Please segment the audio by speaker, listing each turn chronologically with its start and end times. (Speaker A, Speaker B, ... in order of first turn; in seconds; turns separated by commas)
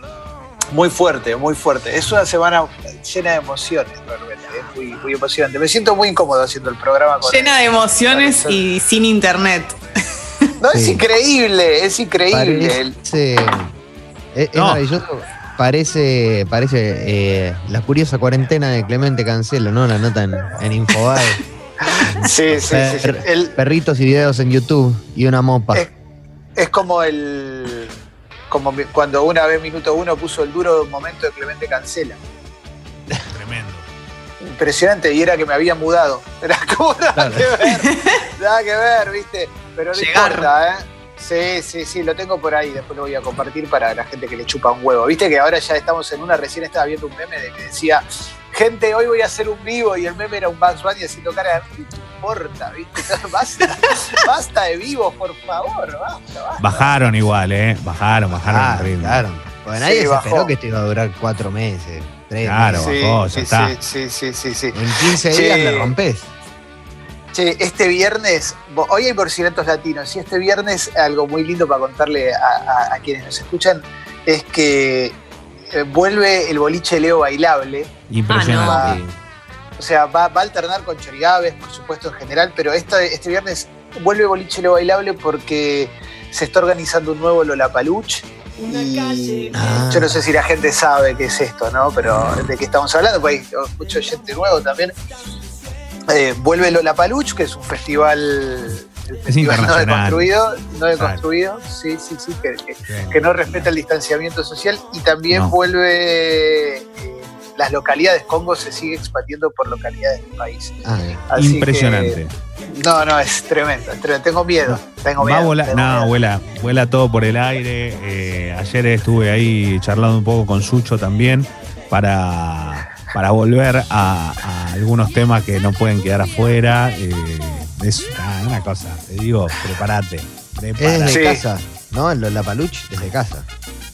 Speaker A: 0.7-8.6, Speaker B: 7.2-9.8, Speaker A: 10.6-12.9, Speaker C: 10.7-11.0, Speaker C: 12.3-13.7, Speaker C: 14.3-21.4, Speaker D: 14.5-14.8, Speaker A: 21.9-23.6, Speaker C: 22.0-25.9, Speaker A: 26.6-27.9, Speaker A: 28.5-32.2, Speaker D: 33.3-33.9, Speaker A: 34.4-57.0, Speaker C: 37.1-37.5, Speaker B: 39.9-40.5, Speaker D: 56.6-59.2, Speaker C: 58.3-63.0, Speaker A: 59.8-60.5, Speaker D: 62.4-63.7, Speaker A: 62.7-65.9, Speaker C: 64.7-66.3, Speaker A: 67.3-75.2, Speaker A: 75.7-77.9, Speaker D: 78.1-79.2, Speaker B: 78.3-78.8, Speaker A: 78.6-79.0, Speaker C: 78.8-79.0, Speaker A: 79.8-94.9, Speaker B: 88.6-89.8, Speaker C: 89.5-90.2, Speaker A: 96.1-112.2, Speaker D: 99.3-100.3, Speaker D: 101.0-101.2, Speaker D: 102.8-103.7, Speaker D: 105.3-105.5, Speaker C: 110.8-111.3, Speaker D: 111.3-112.3, Speaker A: 112.7-116.1, Speaker D: 115.2-131.2, Speaker C: 130.8-133.4, Speaker A: 131.1-131.4